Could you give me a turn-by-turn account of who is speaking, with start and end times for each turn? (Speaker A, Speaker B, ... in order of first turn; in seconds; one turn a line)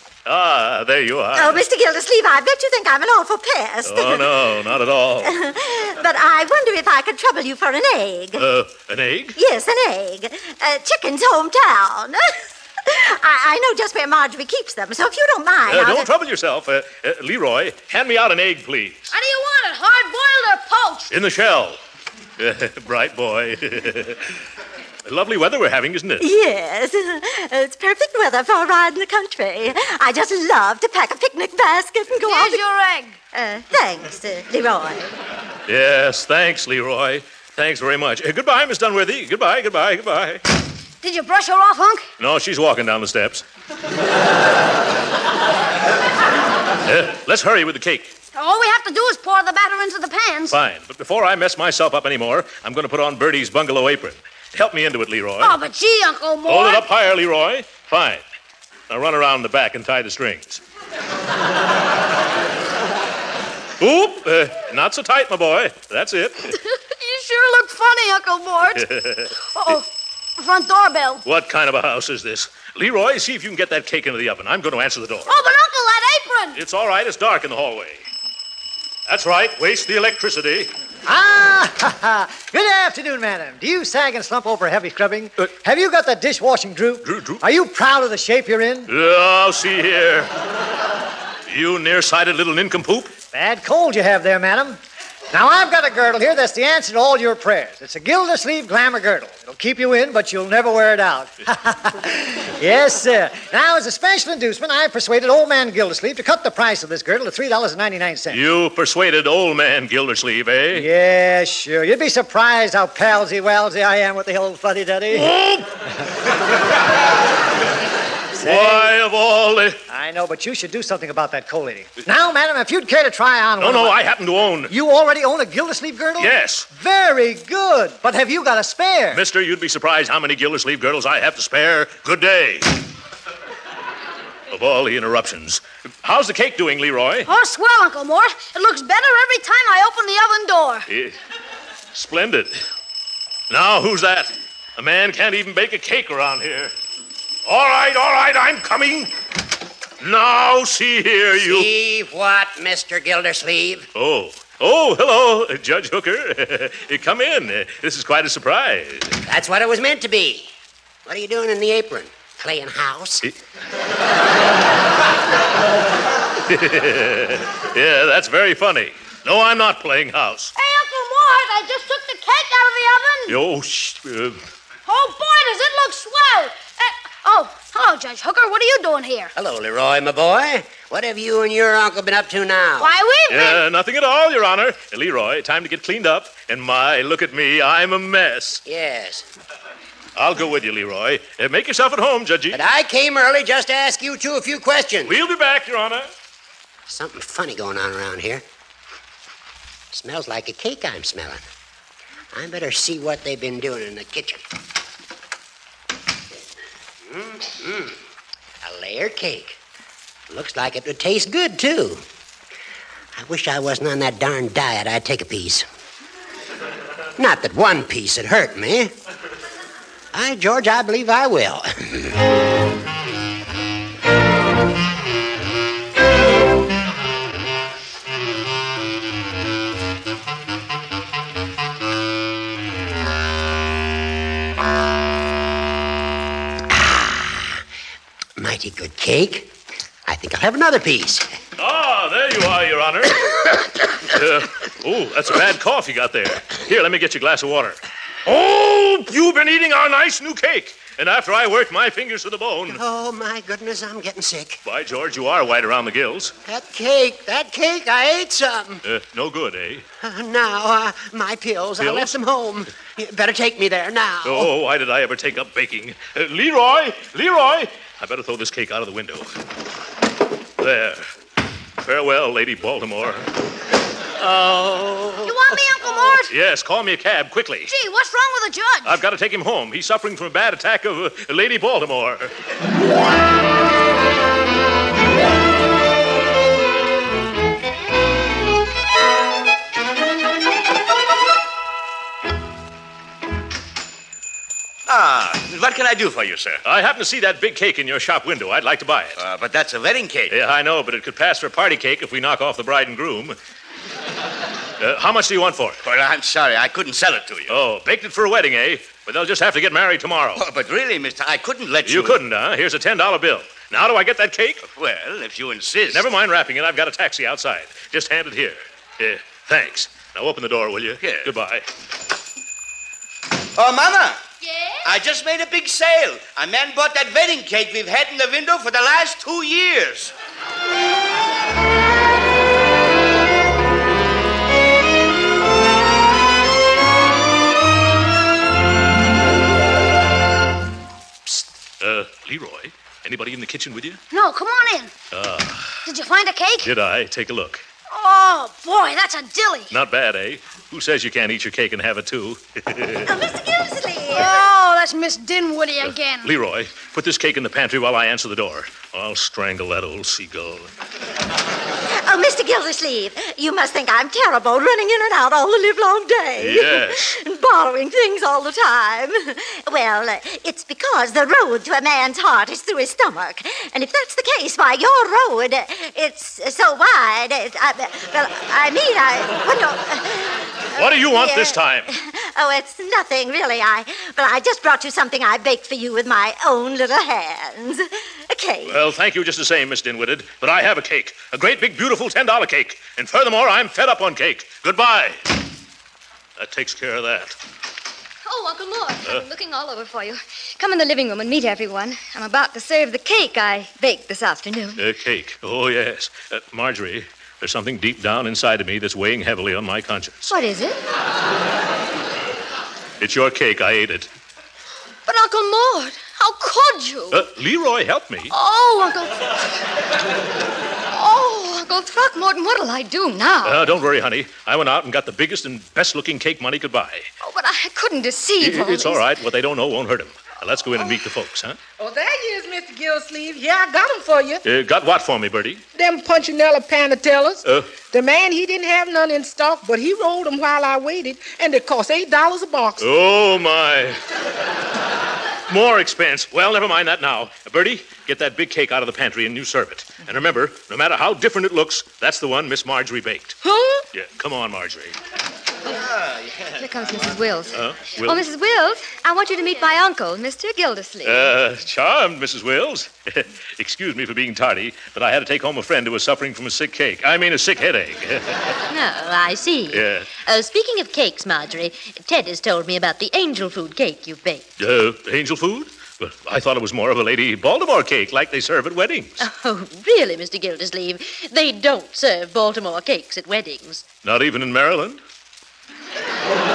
Speaker A: 0.3-1.6
Speaker B: 1.3-4.4
Speaker A: 3.9-5.3
Speaker B: 5.2-8.5
Speaker A: 8.4-9.4
Speaker B: 9.4-16.1
Speaker A: 15.7-19.1
Speaker C: 19.1-21.1
Speaker A: 21.1-21.8
Speaker A: 22.4-24.3
Speaker A: 25.1-26.3
Speaker B: 26.2-32.6
Speaker C: 32.2-33.2
Speaker B: 33.3-35.1
Speaker A: 35.7-40.4
Speaker C: 41.0-42.1
Speaker A: 42.2-43.5
Speaker A: 46.9-48.1
Speaker C: 48.3-50.6
Speaker A: 50.5-55.6
Speaker C: 55.4-56.9
Speaker A: 56.5-58.2
Speaker A: 58.9-60.6
Speaker A: 63.8-66.5
Speaker C: 66.5-68.9
Speaker A: 68.7-69.8
Speaker C: 69.5-71.2
Speaker A: 71.2-75.3
Speaker C: 75.3-76.6
Speaker A: 76.5-78.0
Speaker A: 79.1-80.7
Speaker D: 81.1-88.9
Speaker A: 87.0-87.4
Speaker A: 88.9-90.3
Speaker A: 91.5-93.1
Speaker D: 93.3-94.8
Speaker D: 95.3-108.4
Speaker A: 108.3-110.9
Speaker D: 110.7-115.3
Speaker A: 115.1-115.7
Speaker D: 118.4-118.9
Speaker A: 118.4-119.8
Speaker D: 119.9-124.0
Speaker A: 123.6-124.7
Speaker D: 124.7-129.2
Speaker A: 126.2-126.7
Speaker A: 129.1-132.7
Speaker A: 134.5-137.3
Speaker C: 137.2-140.9
Speaker A: 140.9-141.2
Speaker A: 141.9-142.6
Speaker A: 143.5-146.7
Speaker A: 147.5-149.1
Speaker A: 150.0-151.7
Speaker E: 151.3-153.9
Speaker A: 153.9-159.2
Speaker E: 159.3-160.5
Speaker E: 161.1-163.3
Speaker A: 166.5-170.5
Speaker C: 170.6-173.4
Speaker A: 173.3-174.4
Speaker C: 174.9-179.3
Speaker E: 179.4-182.9
Speaker C: 182.8-183.6
Speaker A: 183.3-188.6
Speaker E: 188.7-189.3
Speaker A: 190.2-192.6
Speaker E: 192.5-195.2
Speaker A: 195.1-196.1
Speaker E: 196.9-198.4
Speaker E: 199.9-201.4
Speaker E: 202.3-204.4
Speaker E: 207.1-208.0
Speaker E: 208.6-209.6
Speaker E: 210.3-212.0
Speaker E: 213.2-215.7
Speaker E: 217.2-218.9
Speaker E: 220.1-222.2
Speaker E: 236.7-237.6
Speaker E: 238.4-239.5
Speaker E: 240.1-241.3
Speaker A: 241.6-252.8
Speaker E: 252.7-254.6
Speaker A: 254.7-256.3
Speaker E: 256.5-258.8
Speaker A: 258.8-259.9
Speaker E: 260.0-264.5
Speaker A: 261.8-262.1
Speaker A: 264.2-269.3
Speaker A: 270.6-271.1
Speaker A: 271.8-273.3
Speaker A: 274.2-275.6
Speaker C: 275.2-276.3
Speaker A: 276.3-277.7
Speaker C: 277.7-278.9
Speaker A: 278.8-282.3
Speaker F: 294.9-296.6
Speaker A: 296.6-299.2
Speaker F: 299.2-300.3
Speaker A: 300.3-303.4
Speaker A: 304.8-305.8
Speaker F: 305.8-307.6
Speaker A: 307.5-310.4
Speaker F: 310.4-312.2
Speaker A: 311.8-314.6
Speaker F: 314.6-316.1
Speaker A: 315.9-321.7
Speaker F: 321.0-321.4
Speaker F: 323.6-324.2
Speaker F: 324.9-330.1
Speaker A: 341.3-344.0
Speaker C: 344.1-344.9
Speaker A: 345.1-345.8
Speaker C: 345.9-346.7
Speaker A: 346.6-347.6
Speaker C: 347.9-349.7
Speaker A: 349.7-353.1
Speaker B: 353.1-354.4
Speaker C: 354.1-356.4
Speaker A: 355.9-360.7
Speaker B: 361.9-388.8
Speaker A: 366.4-367.1
Speaker A: 380.8-381.9
Speaker A: 388.7-395.2
Speaker A: 396.4-397.4
Speaker G: 398.2-404.8
Speaker A: 404.8-410.3
Speaker G: 410.3-410.8
Speaker A: 413.0-414.1
Speaker G: 415.1-417.3
Speaker A: 417.1-418.3
Speaker G: 418.3-419.3
Speaker G: 420.9-423.6
Speaker A: 423.4-427.1
Speaker G: 427.2-429.1
Speaker A: 428.4-431.6
Speaker H: 431.8-434.4
Speaker A: 434.4-435.6
Speaker H: 435.8-442.9
Speaker A: 437.4-437.7
Speaker A: 442.8-444.0
Speaker A: 445.5-453.4
Speaker G: 453.4-453.8
Speaker A: 453.9-455.0
Speaker G: 456.6-461.3
Speaker A: 457.5-458.3
Speaker A: 461.0-468.4
Speaker I: 468.7-474.5
Speaker A: 469.7-470.1
Speaker A: 474.6-479.2
Speaker I: 479.2-483.9
Speaker A: 484.0-485.0